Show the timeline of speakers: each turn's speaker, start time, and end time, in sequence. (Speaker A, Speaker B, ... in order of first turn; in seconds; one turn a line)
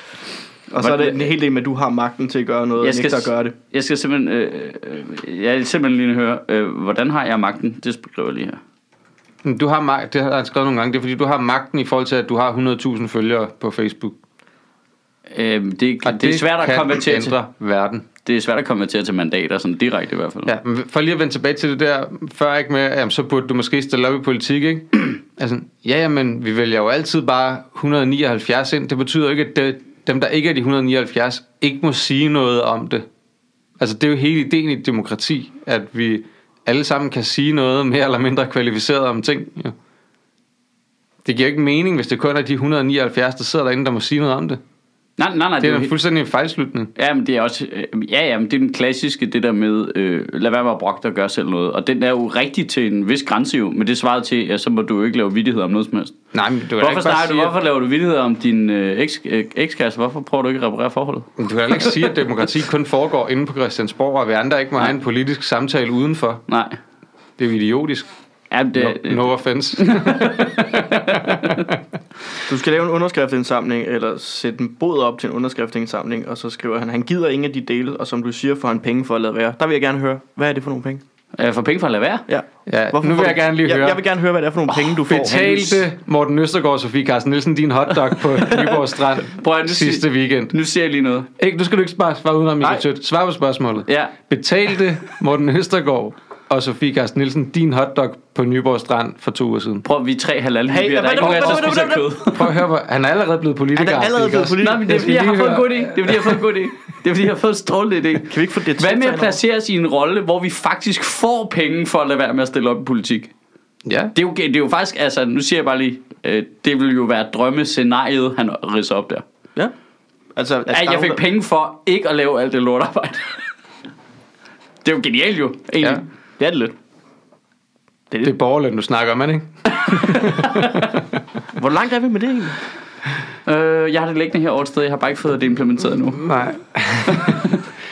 Speaker A: 0.7-3.5
Speaker B: 0.7-1.3
Speaker B: 2.8-8.6
Speaker C: 9.4-14.2
Speaker B: 15.3-17.4
Speaker C: 16.0-18.0
Speaker B: 18.2-20.5
Speaker C: 20.4-33.0
Speaker C: 33.8-39.7
Speaker C: 41.2-44.6
Speaker B: 45.2-45.9
Speaker C: 45.6-46.9
Speaker B: 46.9-56.1
Speaker C: 56.3-57.5
Speaker B: 56.8-62.1
Speaker C: 61.4-66.4
Speaker B: 66.5-66.8
Speaker C: 67.4-68.1
Speaker B: 68.5-71.7
Speaker C: 68.7-71.8
Speaker A: 72.5-81.0
Speaker B: 81.4-82.2
Speaker A: 82.3-85.8
Speaker C: 82.7-84.0
Speaker C: 85.1-90.5
Speaker B: 85.3-85.6
Speaker B: 88.4-88.7
Speaker B: 89.3-91.3
Speaker C: 91.4-99.8
Speaker B: 93.9-94.1
Speaker B: 99.8-102.6
Speaker A: 100.7-102.1
Speaker C: 101.2-101.8
Speaker C: 102.3-106.4
Speaker A: 103.8-105.2
Speaker B: 104.6-113.3
Speaker A: 108.3-109.4
Speaker C: 113.8-114.1
Speaker B: 114.1-119.2
Speaker A: 120.3-121.2
Speaker B: 120.7-123.4
Speaker B: 124.8-126.0
Speaker A: 126.4-126.7
Speaker C: 128.2-131.2
Speaker A: 131.5-132.6
Speaker B: 133.4-136.4
Speaker C: 136.1-137.6
Speaker B: 137.1-137.6